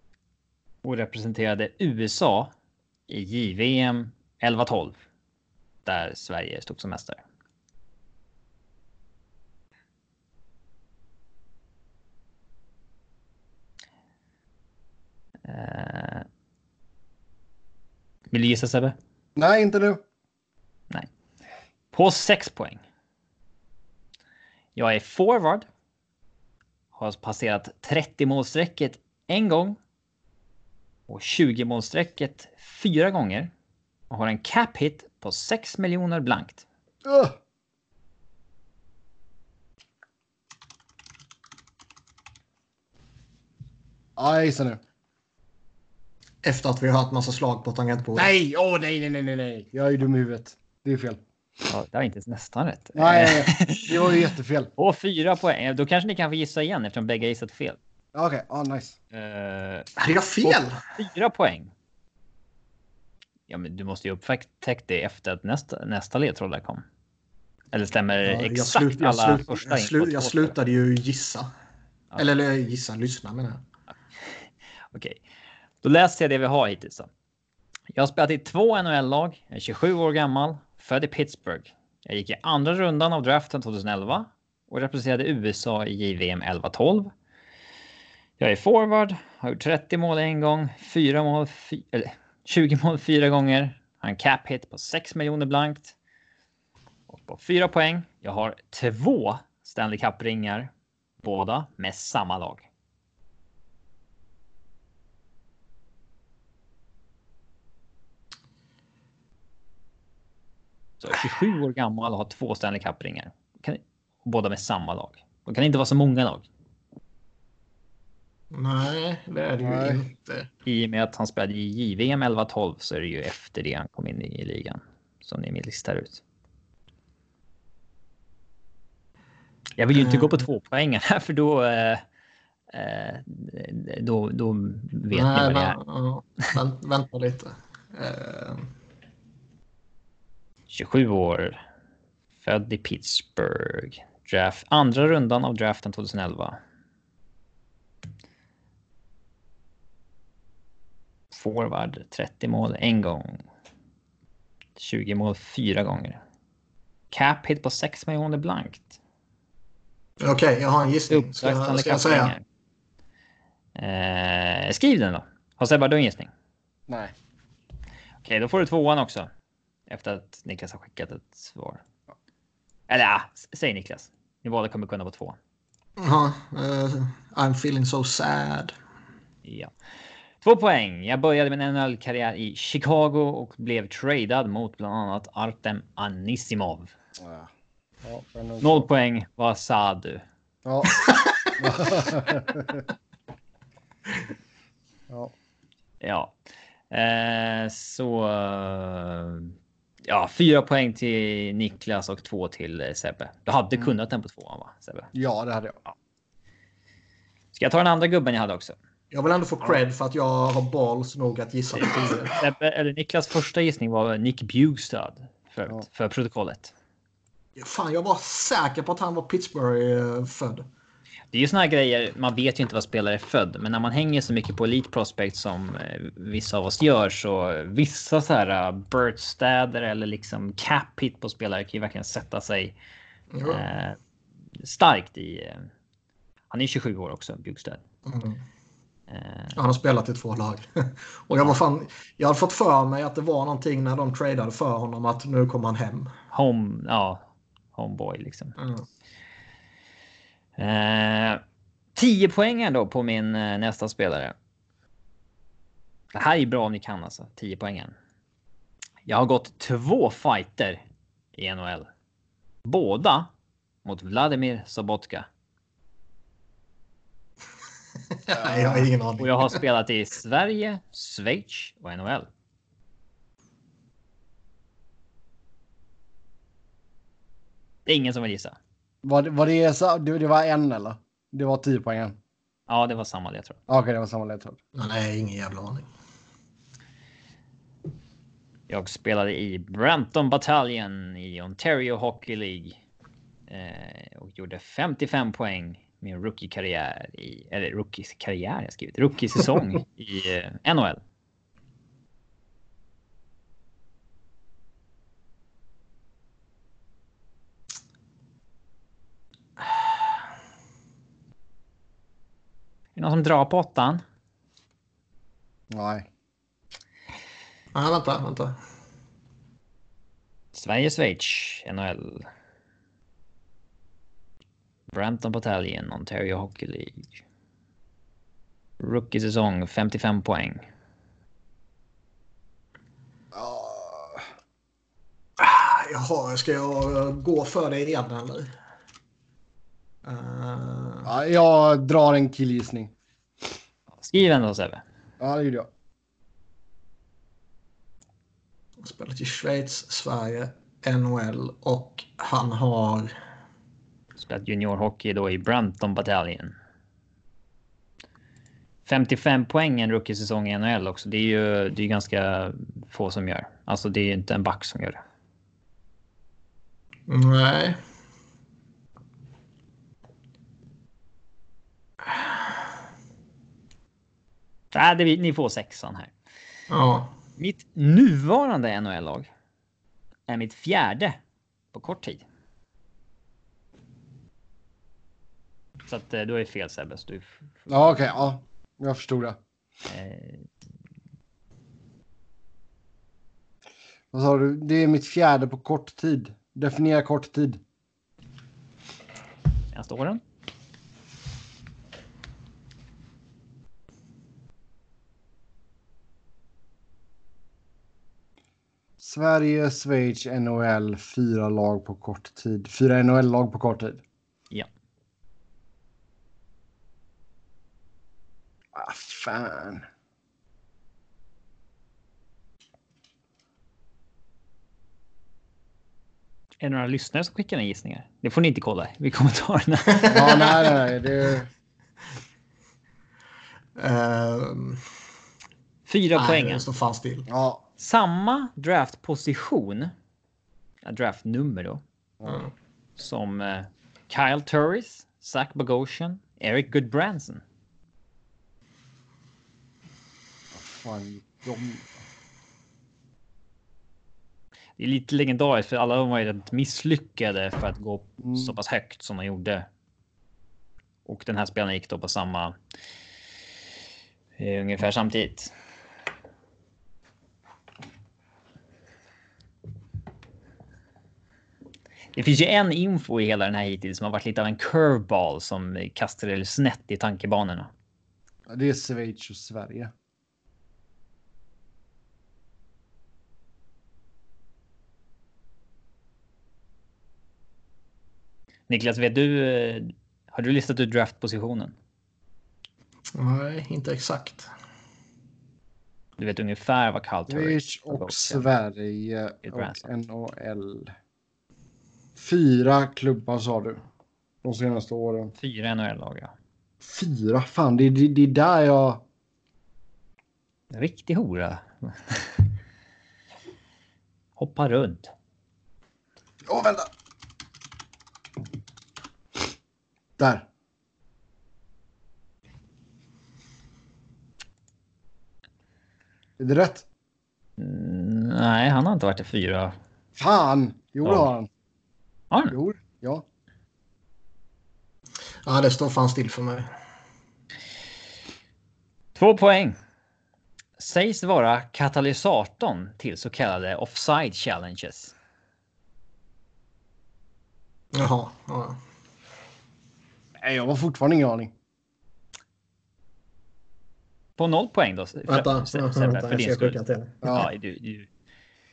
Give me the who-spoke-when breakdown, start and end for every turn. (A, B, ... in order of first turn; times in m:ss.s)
0:00.8-0:02.5 A
0:03.1-0:05.0 A
0:05.8-0:07.2 A
0:15.4-0:16.3 A
0:18.3-0:19.0 A
0:19.4-0:20.0 B
0:21.9-0:22.8 A
0:24.8-0:25.6 A
0:26.9-0:29.8 A
0:31.1-0:33.5 A
0:34.1-0:36.6 A
0:37.0-0:37.4 B
0:44.2-0:44.8 B
0:46.4-0:48.3 C
0:48.2-0:51.2 B
0:51.7-0:54.1 A
0:52.9-0:54.7 B
0:54.8-0:57.8 A
0:58.1-0:59.0 B
0:59.1-0:59.9 A
1:00.0-1:00.8 C
1:00.4-1:01.7 A
1:03.5-1:06.8 A
1:07.7-1:10.5 A
1:08.2-1:11.5 C
1:12.2-1:13.6 C
1:14.9-1:15.2 A
1:15.8-1:17.1 A
1:17.9-1:27.1 A
1:28.4-1:35.9 A
1:37.1-1:40.7 A
1:41.2-1:42.6 A
1:51.0-1:56.4 A
1:58.5-2:00.5 C
1:59.6-2:00.0 B
2:00.6-2:06.2 A
2:09.8-2:12.0 A
2:09.9-2:10.3 C
2:12.7-2:15.8 A
2:15.1-2:18.7 C
2:20.7-2:21.6 A
2:22.4-2:26.6 A
2:31.3-2:33.4 A
2:34.8-2:36.2 A
2:37.1-2:39.0 A
2:40.2-2:42.3 C
2:41.1-2:42.4 A
2:43.8-2:46.3 A
2:46.9-2:47.1 B
2:48.2-2:49.3 A
2:49.9-2:51.8 A
2:52.9-2:55.4 A
2:56.0-2:58.7 C
2:59.4-2:59.7 A
3:00.4-3:06.9 A
3:07.2-3:07.5 B
3:08.0-3:08.8 B
3:08.6-3:10.2 A
3:10.6-3:11.0 B
3:11.6-3:12.8 B
3:16.0-3:16.3 A
3:16.9-3:25.1 A
3:25.1-3:25.8 B
3:27.5-3:28.8 A
3:29.1-3:32.4 C
3:31.7-3:36.7 A
3:37.6-3:40.6 C
3:41.3-3:52.8 A
3:53.3-3:53.6 C
3:53.4-3:54.0 A
3:54.6-3:55.7 A
3:56.5-3:57.8 A
3:58.0-3:58.4 C
3:59.1-3:59.6 A
3:59.5-4:06.1 C
4:06.3-4:08.6 A
4:08.6-4:08.8 C
4:10.6-4:11.4 A
4:11.9-4:14.3 A
4:16.1-4:17.9 A
4:19.0-4:20.8 A
4:21.3-4:21.9 A
4:22.6-4:23.3 A
4:23.8-4:25.3 A
4:28.2-4:29.6 C
4:28.4-4:28.9 B
4:29.2-4:32.3 A
4:37.8-4:38.6 A
4:39.0-4:42.2 B
4:42.7-4:43.6 A
4:43.7-4:44.6 B
4:44.7-4:45.8 C
4:48.7-4:52.8 A
4:53.5-5:01.0 A
5:13.0-5:14.0 A
5:15.7-5:16.1 B
5:17.7-5:18.6 C
5:20.5-5:22.3 A
5:24.9-5:27.1 A
5:28.8-5:30.6 A
5:33.3-5:34.3 B
5:35.4-5:38.5 C
5:40.0-5:41.1 C
5:41.0-5:42.9 B
5:44.0-5:44.8 A
5:45.2-5:45.7 B
5:48.8-5:53.1 C
5:54.2-5:56.5 A
5:58.8-6:05.0 A
6:07.1-6:07.8 C
6:14.7-6:16.1 A
6:16.7-6:17.1 C
6:17.4-6:19.3 A
6:20.3-6:21.2 A
6:21.7-6:22.2 A
6:25.9-6:28.0 A
6:27.7-6:29.4 B
6:29.9-6:30.5 A
6:34.1-6:37.6 B
6:39.7-6:40.2 A
6:49.0-6:54.0 B
6:58.7-6:59.8 B
7:06.6-7:10.4 A
7:10.1-7:10.8 C
7:10.1-7:11.5 B
7:13.8-7:14.8 C
7:15.9-7:16.6 A
7:16.1-7:17.3 C
7:17.3-7:17.6 B
7:17.8-7:19.9 A
7:20.8-7:21.8 A
7:23.0-7:27.4 A
7:30.5-7:31.9 B
7:34.8-7:39.7 A
7:38.2-7:38.6 B
7:41.0-7:42.5 A
7:44.4-7:45.5 A
7:52.1-7:57.7 A
7:58.5-7:59.9 B
8:08.7-8:11.7 A
8:13.1-8:14.5 C
8:16.2-8:18.5 A
8:17.3-8:20.9 B
8:19.4-8:19.8 A
8:22.2-8:23.8 B
8:24.4-8:25.3 B
8:25.4-8:26.3 A
8:26.8-8:29.0 B
8:30.7-8:32.4 A
8:34.4-8:35.1 A
8:36.4-8:36.9 B
8:40.2-8:40.4 B
8:46.4-8:46.8 B
8:47.6-8:49.8 A
8:50.2-8:51.5 B
8:52.5-8:53.2 B
8:55.4-8:56.7 C
8:59.1-8:59.8 A
9:00.8-9:05.1 A
9:07.9-9:08.8 C
9:10.4-9:11.5 B
9:14.4-9:18.1 A
9:15.3-9:17.4 C